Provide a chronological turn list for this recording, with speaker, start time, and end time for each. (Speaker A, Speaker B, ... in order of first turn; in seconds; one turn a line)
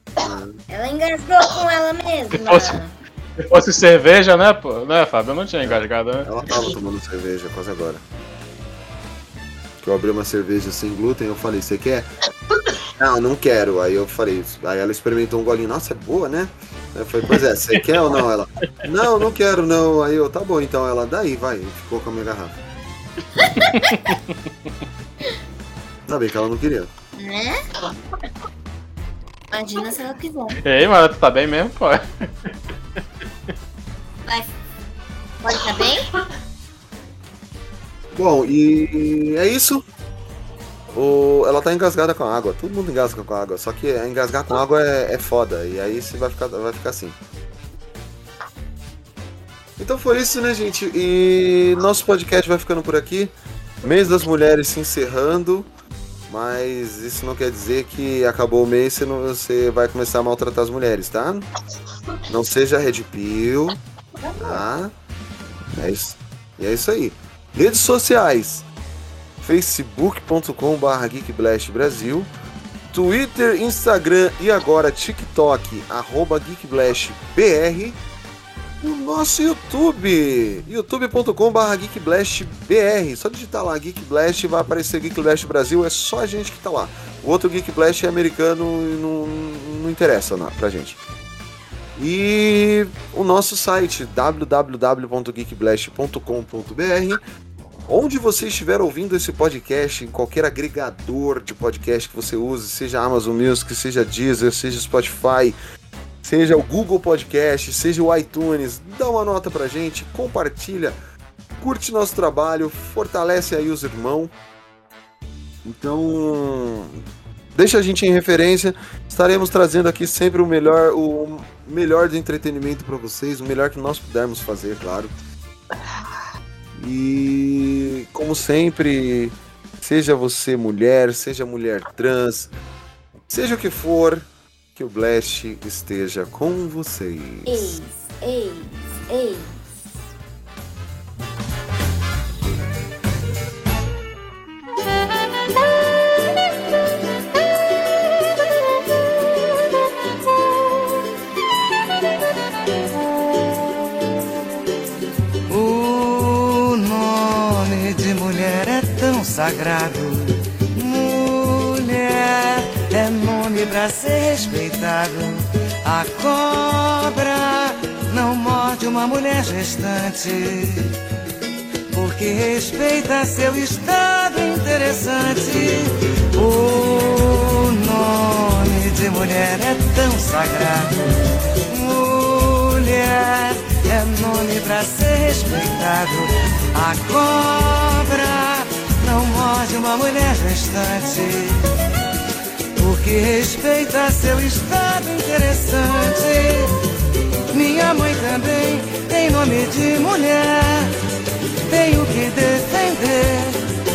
Speaker A: 0.2-0.6
Speaker B: 0.7-3.0
Speaker C: 2.4-2.8
Speaker C: 3.5-6.3
Speaker A: 5.6-8.0
Speaker A: 9.8-12.1
Speaker A: 12.9-22.6
Speaker C: 17.7-18.2
Speaker B: 23.4-23.9
Speaker C: 23.7-24.2
Speaker A: 26.1-26.9
Speaker B: 27.2-27.7
Speaker B: 29.5-30.6
Speaker C: 30.6-32.5
Speaker B: 34.3-34.5
Speaker B: 35.4-36.1
Speaker A: 38.1-39.8
Speaker A: 40.9-47.2
Speaker A: 49.8-55.7
Speaker A: 56.3-61.5
Speaker A: 62.3-63.8
Speaker A: 64.4-64.9
Speaker A: 65.8-68.7
Speaker A: 69.4-72.3
Speaker A: 72.9-78.0
Speaker A: 78.8-91.0
Speaker A: 92.0-97.2
Speaker A: 97.9-105.6
Speaker A: 106.2-111.0
Speaker A: 111.6-114.3
Speaker A: 115.6-125.2
Speaker A: 126.8-132.5
Speaker A: 133.3-137.8
Speaker B: 137.5-139.6
Speaker D: 155.5-170.9
Speaker D: 171.9-181.1
Speaker D: 181.7-191.6
Speaker D: 192.8-196.7
Speaker D: 197.5-200.9
Speaker D: 201.7-203.6